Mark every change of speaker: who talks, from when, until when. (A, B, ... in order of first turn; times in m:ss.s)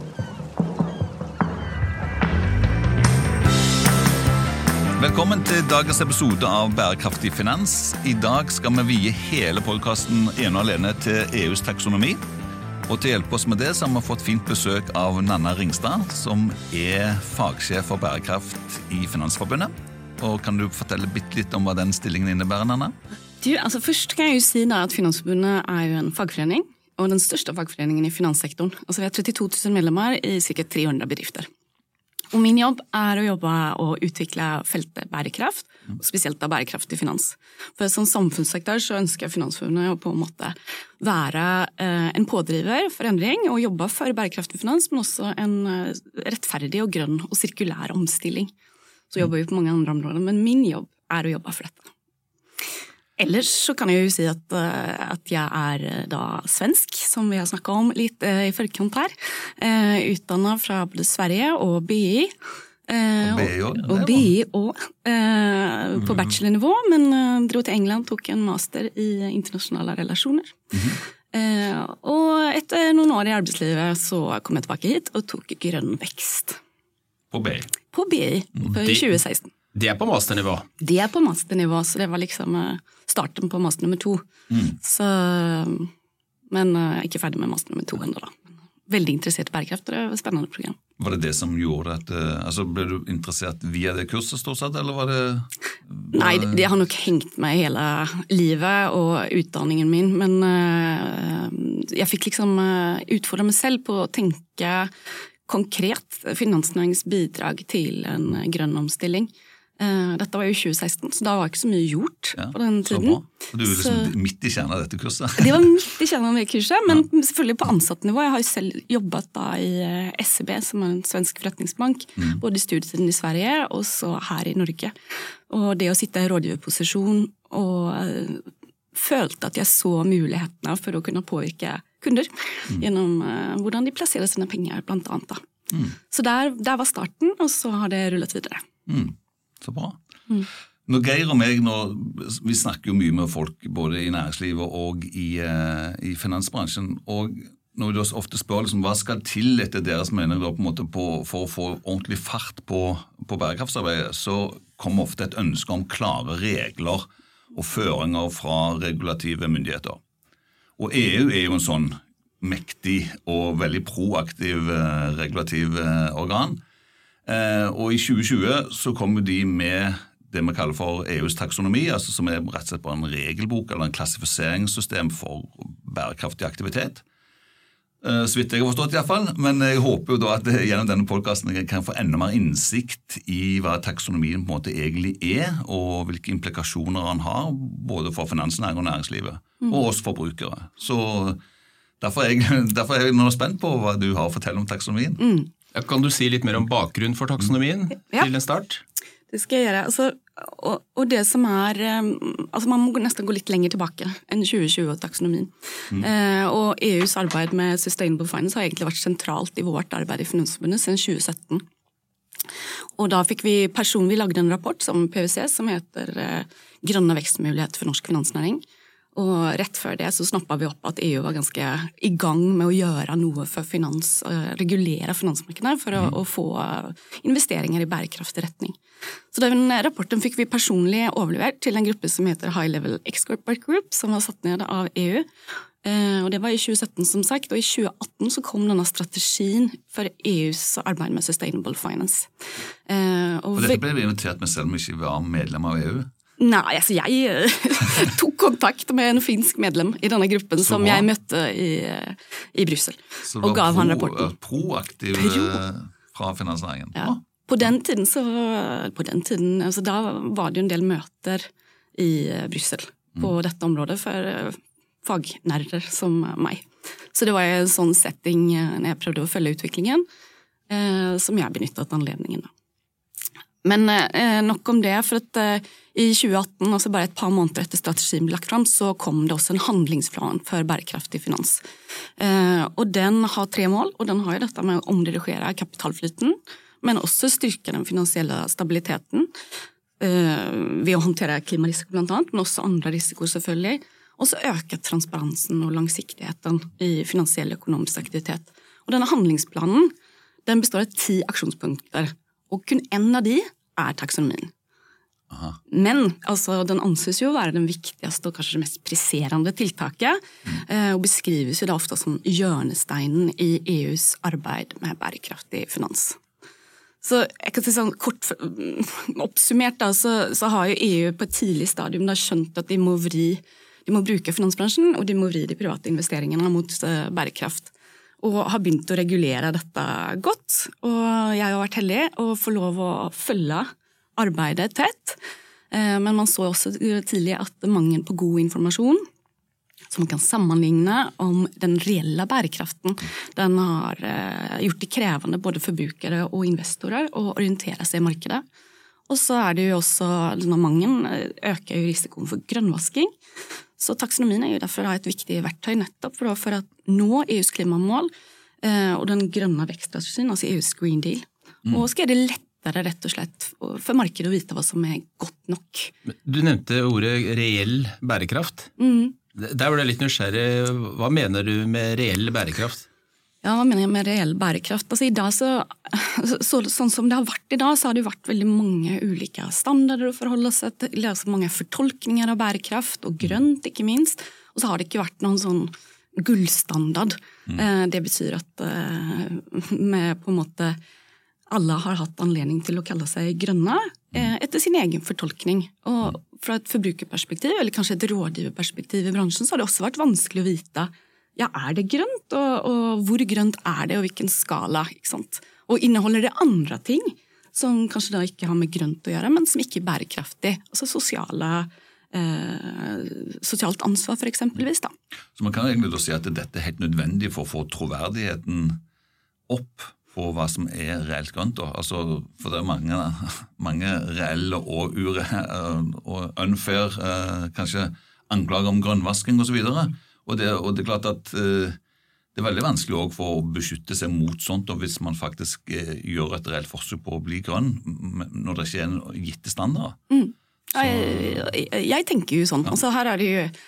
0:05.0-0:12.2 A
0:12.9-0:22.9 A
0:23.4-0:31.5 B
0:32.3-0:48.5 B
0:49.1-0:51.9 B
0:53.2-1:02.3 B
1:02.9-1:16.6 B
1:03.2-1:04.3 A
1:17.3-1:17.7 A
1:17.9-1:19.5 B
1:18.7-1:19.1 C
1:19.7-1:20.6 C
1:20.8-1:25.9 B
1:24.5-1:24.8 A
1:26.5-1:30.8 B
1:31.0-1:36.7 A
1:36.1-1:44.9 B
1:45.4-1:54.1 B
1:52.4-1:55.7 A
1:55.4-2:04.9 B
2:05.5-2:15.4 B
2:16.1-2:18.6 B
2:18.9-2:20.0 A
2:20.9-2:40.0 A
2:40.8-2:46.6 A
2:47.2-2:57.0 A
2:58.0-3:11.4 A
3:12.0-3:15.2 A
3:15.2-3:15.5 B
3:15.7-3:18.8 C
3:19.3-3:31.6 B
3:33.0-3:38.6 B
3:39.1-3:48.8 B
3:49.3-3:55.3 B
3:55.8-4:02.3 B
4:02.8-4:03.8 B
4:03.6-4:06.1 A
4:06.4-4:14.3 B
4:10.6-4:11.1 A
4:13.2-4:17.2 A
4:15.1-4:15.6 B
4:16.9-4:30.0 B
4:30.7-4:32.5 B
4:33.6-4:41.6 B
4:42.2-4:49.3 B
4:50.0-4:59.9 B
5:00.4-5:04.5 B
5:05.3-5:05.6 A
5:05.7-5:16.2 B
5:17.0-5:35.2 B
5:35.7-5:39.0 B
5:39.9-5:48.4 B
5:49.1-5:53.1 B
5:53.8-5:58.1 B
5:58.6-6:05.9 B
6:06.1-6:08.7 C
6:08.8-6:09.2 B
6:09.3-6:12.8 C
6:13.4-6:30.8 B
6:31.5-6:54.9 B
6:55.3-6:58.8 A
6:59.5-7:11.8 A
7:12.3-7:20.0 A
7:20.1-7:23.5 B
7:20.8-7:21.4 A